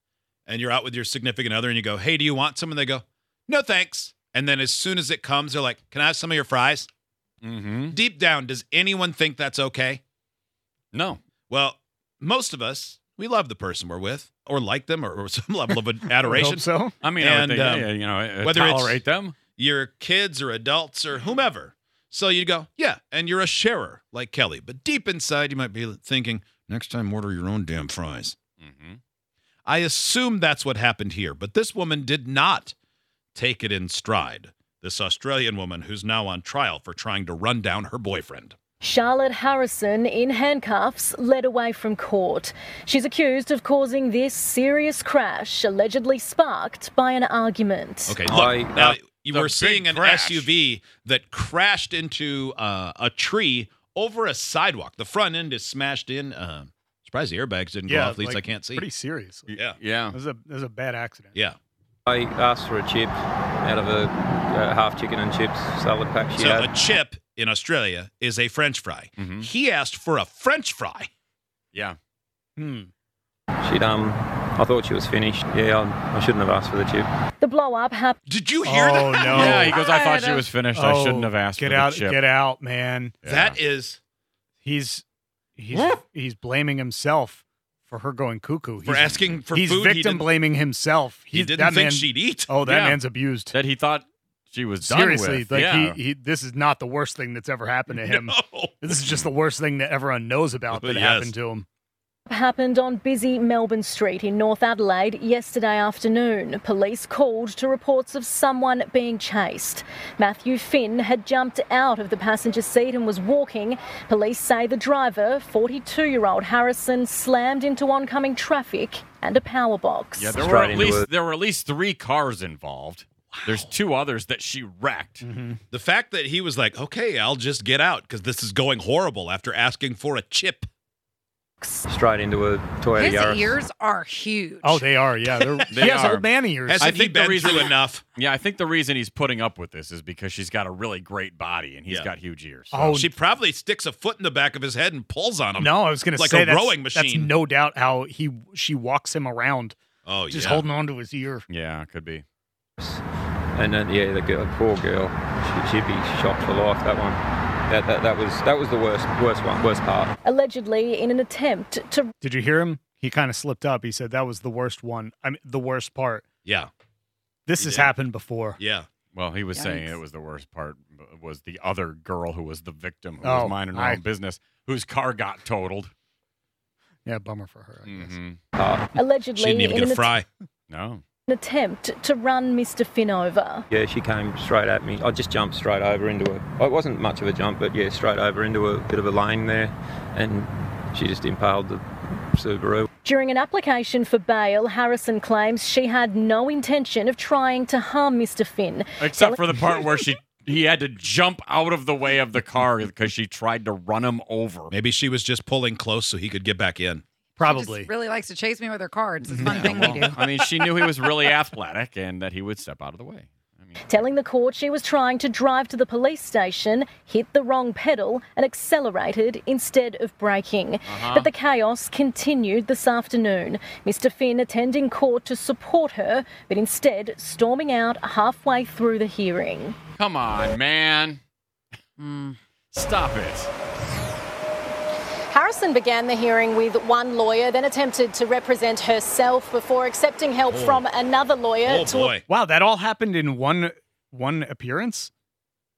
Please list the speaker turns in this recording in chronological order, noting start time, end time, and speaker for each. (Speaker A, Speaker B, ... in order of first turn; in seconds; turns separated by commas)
Speaker A: 0.5-6.9, Speaker B: 7.4-8.0, Speaker A: 7.9-10.0, Speaker B: 10.9-11.2, Speaker A: 11.5-17.9, Speaker C: 15.7-17.0, Speaker B: 17.0-19.4, Speaker A: 18.4-18.9, Speaker C: 18.6-18.9, Speaker A: 19.6-28.4, Speaker B: 28.6-29.0, Speaker A: 29.7-32.7, Speaker A: 33.4-38.6, Speaker D: 38.8-48.2, Speaker A: 48.1-58.9, Speaker E: 48.2-49.0, Speaker B: 49.3-50.5, Speaker C: 57.9-61.4, Speaker A: 59.5-59.8, Speaker B: 59.6-60.2, Speaker E: 62.1-66.7, Speaker A: 66.4-71.1, Speaker B: 69.2-69.5, Speaker C: 72.6-72.9, Speaker E: 73.6-77.1, Speaker D: 77.4-78.2, Speaker A: 78.3-79.6, Speaker C: 78.6-79.8, Speaker F: 79.3-80.5, Speaker B: 79.3-82.2, Speaker C: 80.7-83.3, Speaker B: 83.2-83.6, Speaker A: 83.3-84.0, Speaker C: 84.6-85.0, Speaker C: 85.6-93.5, Speaker A: 88.8-90.3, Speaker A: 91.3-92.6, Speaker B: 92.6-96.0, Speaker C: 94.8-101.7, Speaker A: 97.9-98.9, Speaker A: 100.7-101.3, Speaker D: 102.3-120.4, Speaker B: 120.2-125.2, Speaker E: 120.4-121.1, Speaker A: 123.3-123.7, Speaker C: 125.2-125.6, Speaker A: 125.7-130.7, Speaker F: 131.6-131.9, Speaker E: 131.9-133.5, Speaker F: 133.0-134.9, Speaker C: 134.6-136.9, Speaker B: 135.7-142.9, Speaker A: 136.7-138.0, Speaker C: 142.7-143.2, Speaker A: 142.9-147.3, Speaker C: 145.6-149.8, Speaker A: 150.0-150.7, Speaker C: 150.3-151.4, Speaker B: 151.5-152.2, Speaker E: 153.6-160.1, Speaker D: 160.2-162.1, Speaker C: 162.2-166.3, Speaker A: 166.4-166.7, Speaker C: 167.5-168.6, Speaker A: 167.6-167.9, Speaker A: 168.6-168.9, Speaker B: 169.1-175.9, Speaker F: 169.6-170.0, Speaker C: 173.2-174.0, Speaker C: 177.1-178.2, Speaker B: 177.8-178.4, Speaker E: 178.6-178.9, Speaker D: 178.9-180.2, Speaker A: 179.4-180.2, Speaker B: 180.7-181.0, Speaker D: 181.3-183.7, Speaker E: 183.7-191.8, Speaker E: 192.3-192.9, Speaker D: 193.0-199.4, Speaker B: 199.0-204.7, Speaker A: 204.7-207.0, Speaker C: 207.4-207.9, Speaker F: 207.4-210.4, Speaker C: 209.3-210.1, Speaker B: 209.4-214.1, Speaker D: 213.9-229.8, Speaker B: 220.9-221.3, Speaker B: 230.0-231.2, Speaker F: 232.0-232.4, Speaker B: 232.7-233.5, Speaker D: 235.3-242.2, Speaker A: 240.5-240.8, Speaker A: 241.7-242.2, Speaker C: 242.3-245.1